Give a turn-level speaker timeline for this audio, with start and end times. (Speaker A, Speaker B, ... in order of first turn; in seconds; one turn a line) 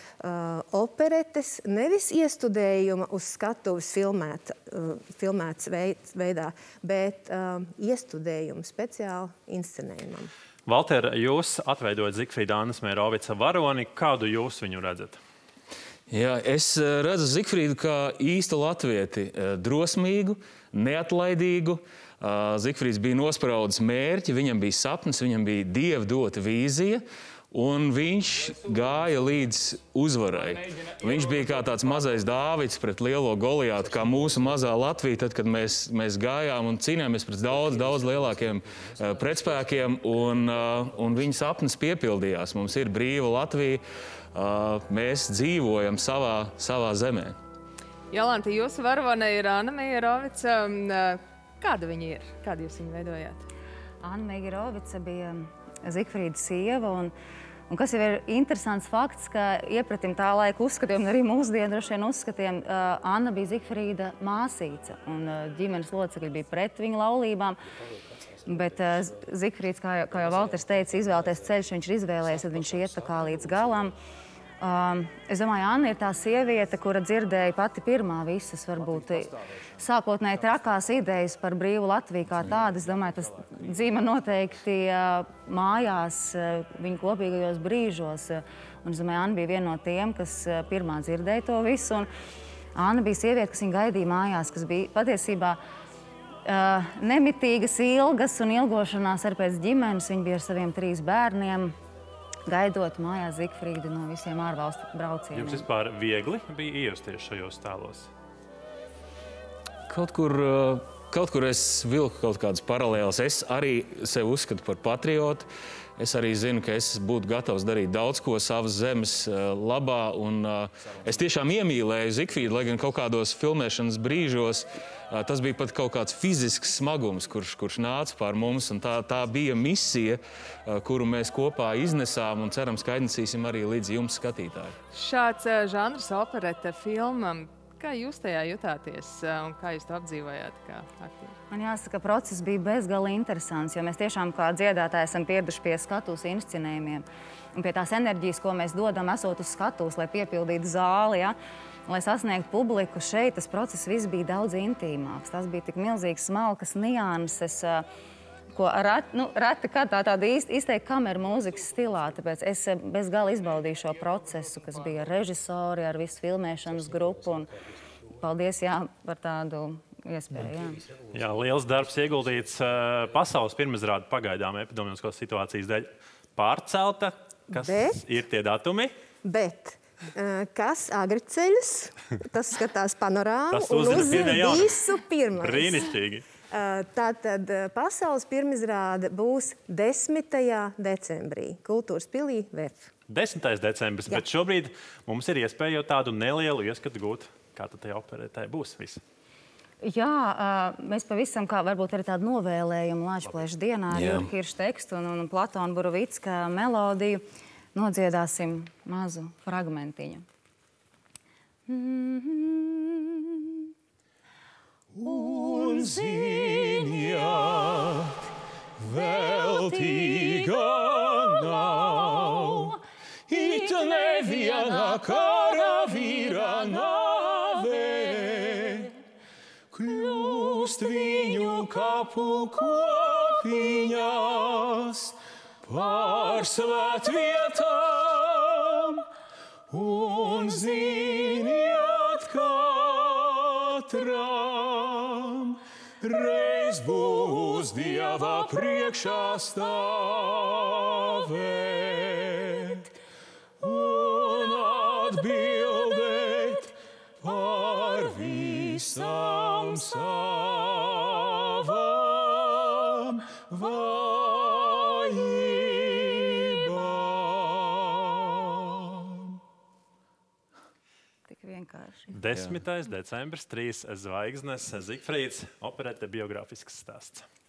Speaker A: 0.2-10.3
Speaker B: 10.7-15.2
Speaker C: 16.1-43.8
Speaker C: 44.3-47.4
Speaker D: 48.1-53.4
Speaker E: 54.0-57.1
Speaker E: 57.7-67.6
Speaker E: 68.5-73.9
Speaker E: 74.6-92.1
Speaker E: 92.8-95.6
Speaker E: 96.5-101.7
Speaker E: 102.5-105.6
Speaker B: 105.3-108.1
Speaker C: 109.9-134.8
Speaker D: 134.9-141.3
Speaker E: 141.5-151.3
Speaker E: 151.9-157.8
Speaker E: 158.5-167.5
Speaker E: 168.1-170.8
Speaker B: 171.1-178.9
Speaker A: 177.5-178.0
Speaker A: 179.2-185.9
Speaker B: 183.5-184.8
Speaker B: 185.4-186.3
Speaker A: 186.5-192.9
Speaker B: 193.1-199.0
Speaker E: 199.8-207.2
Speaker C: 203.9-204.3
Speaker E: 207.7-210.2
Speaker E: 211.7-213.7
Speaker C: 214.9-218.2
Speaker C: 218.8-229.0
Speaker C: 229.7-239.1
Speaker C: 239.7-252.9
Speaker C: 253.6-269.4
Speaker E: 271.3-272.1
Speaker B: 272.1-277.2